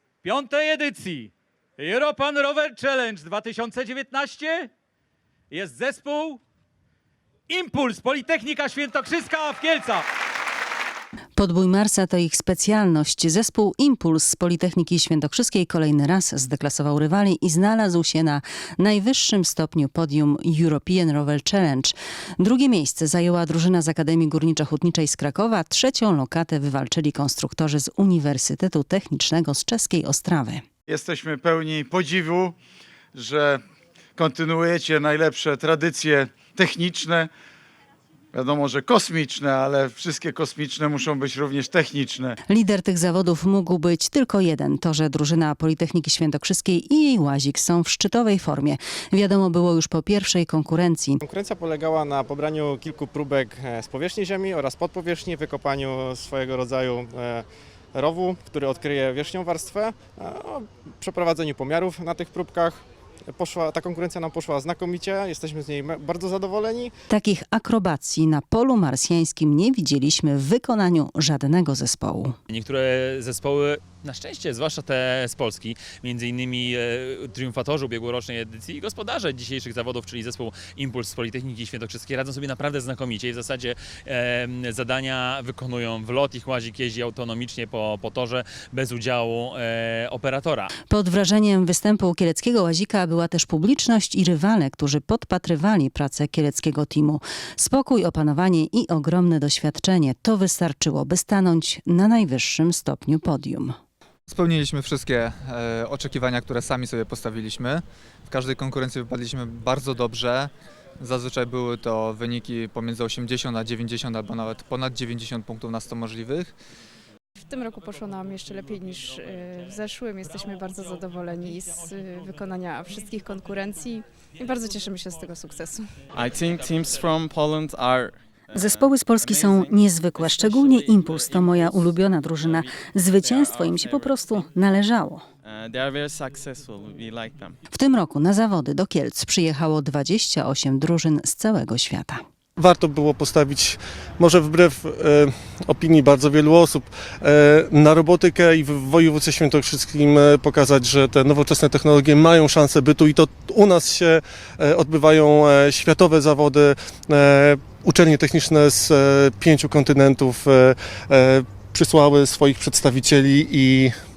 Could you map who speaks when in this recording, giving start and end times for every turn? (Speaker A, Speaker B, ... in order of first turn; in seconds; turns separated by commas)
Speaker A: 0.2-4.7, Speaker A: 5.5-6.4, Speaker A: 7.5-10.0, Speaker B: 11.3-30.6, Speaker C: 30.9-32.5, Speaker C: 33.1-33.6, Speaker C: 34.1-37.3, Speaker C: 38.3-42.4, Speaker B: 42.5-51.2, Speaker D: 51.2-66.9, Speaker B: 67.1-72.4, Speaker E: 72.5-90.7, Speaker B: 90.9-103.8, Speaker F: 104.3-116.5, Speaker G: 117.5-126.0, Speaker H: 126.1-134.7, Speaker B: 128.6-135.2, Speaker H: 135.4-137.6, Speaker B: 137.7-142.2, Speaker I: 142.6-163.9